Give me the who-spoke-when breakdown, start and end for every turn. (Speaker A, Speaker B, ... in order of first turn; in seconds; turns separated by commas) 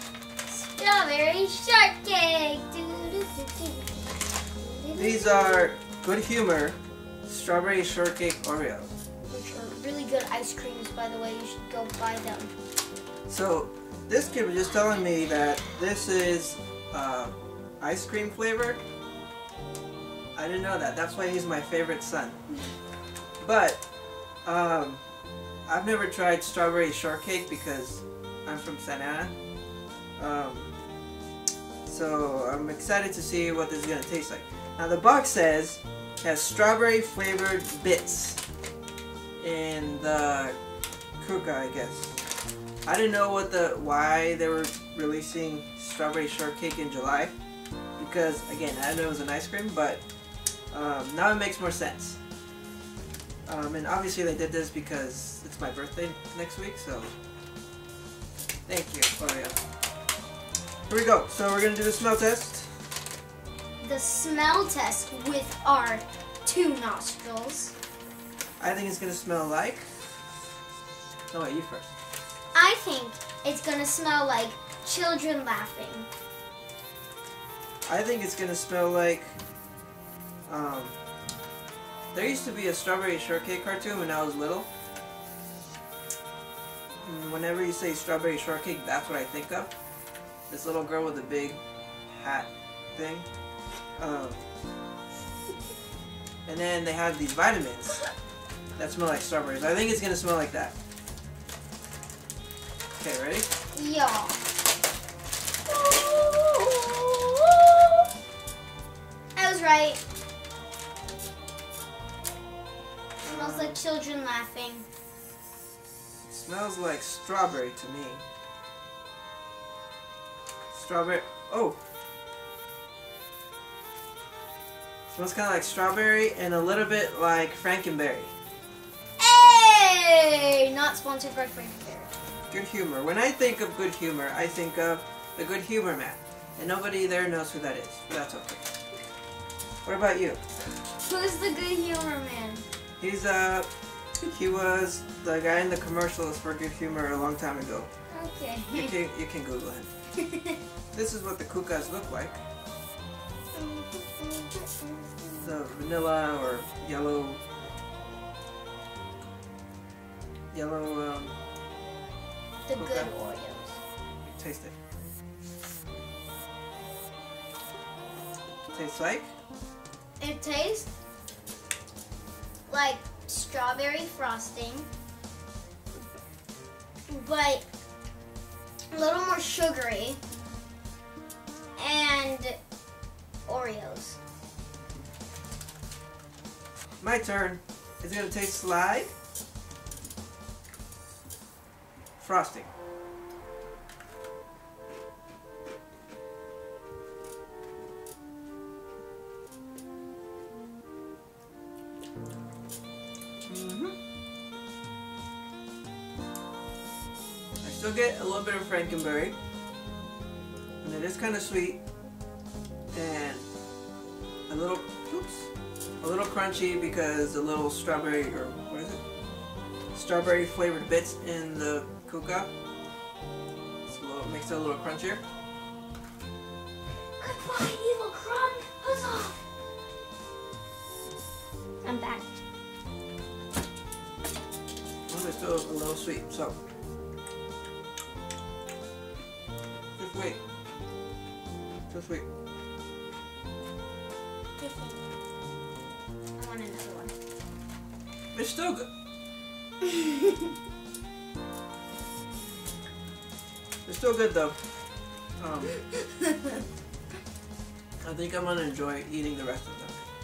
Speaker A: 0.4-5.7, Speaker B: 5.0-8.9, Speaker A: 9.3-12.5, Speaker B: 13.3-18.8, Speaker B: 20.3-22.4, Speaker B: 23.4-23.8, Speaker B: 24.4-25.0, Speaker B: 25.6-29.3, Speaker B: 30.2-30.7, Speaker B: 31.8-38.4, Speaker B: 39.4-40.6, Speaker B: 41.2-42.2, Speaker B: 42.9-47.3, Speaker B: 48.0-50.0, Speaker B: 50.7-52.2, Speaker B: 53.5-57.1, Speaker B: 58.6-59.6, Speaker B: 60.9-62.8, Speaker A: 63.8-67.7, Speaker B: 68.6-69.9, Speaker B: 71.3-71.9, Speaker A: 72.5-76.1, Speaker B: 77.8-79.4, Speaker B: 80.5-81.0, Speaker B: 82.1-84.7, Speaker B: 87.0-89.7, Speaker B: 90.5-93.3, Speaker B: 94.0-94.5, Speaker B: 96.5-98.0, Speaker B: 98.8-100.7, Speaker B: 103.0-103.5, Speaker A: 103.7-104.4, Speaker A: 105.7-108.1, Speaker A: 109.3-110.0, Speaker B: 113.2-113.8, Speaker A: 113.2-114.8, Speaker B: 116.3-118.2, Speaker B: 120.7-121.8, Speaker B: 125.1-128.3, Speaker A: 129.2-132.1, Speaker B: 132.5-138.7, Speaker B: 139.8-140.4, Speaker A: 140.9-142.6, Speaker B: 143.0-143.7, Speaker B: 144.2-147.9, Speaker A: 148.1-148.9, Speaker B: 148.7-149.9, Speaker A: 150.1-150.6, Speaker B: 150.9-152.4, Speaker A: 153.5-155.4, Speaker B: 155.4-157.4, Speaker B: 160.5-161.3, Speaker A: 162.6-163.8, Speaker B: 162.7-163.1, Speaker B: 164.2-164.7, Speaker B: 168.7-169.3, Speaker A: 170.2-170.9, Speaker A: 172.7-174.9, Speaker A: 177.1-177.6, Speaker A: 178.9-180.2, Speaker A: 181.8-182.6, Speaker A: 183.5-184.2, Speaker B: 187.0-189.1, Speaker B: 192.2-192.7, Speaker B: 203.4-203.9, Speaker B: 207.6-209.3, Speaker B: 210.8-211.8, Speaker B: 212.9-213.4, Speaker B: 214.5-215.5, Speaker B: 216.0-219.0, Speaker B: 219.9-222.5, Speaker B: 223.9-225.2, Speaker A: 227.2-229.4, Speaker A: 231.8-232.3, Speaker B: 235.1-236.5, Speaker B: 240.0-240.4, Speaker B: 241.9-242.2, Speaker A: 244.6-245.0, Speaker A: 246.4-247.1, Speaker B: 248.3-248.9, Speaker A: 249.8-250.4, Speaker B: 253.8-254.6, Speaker B: 255.4-255.7, Speaker A: 255.9-256.5, Speaker B: 258.0-260.0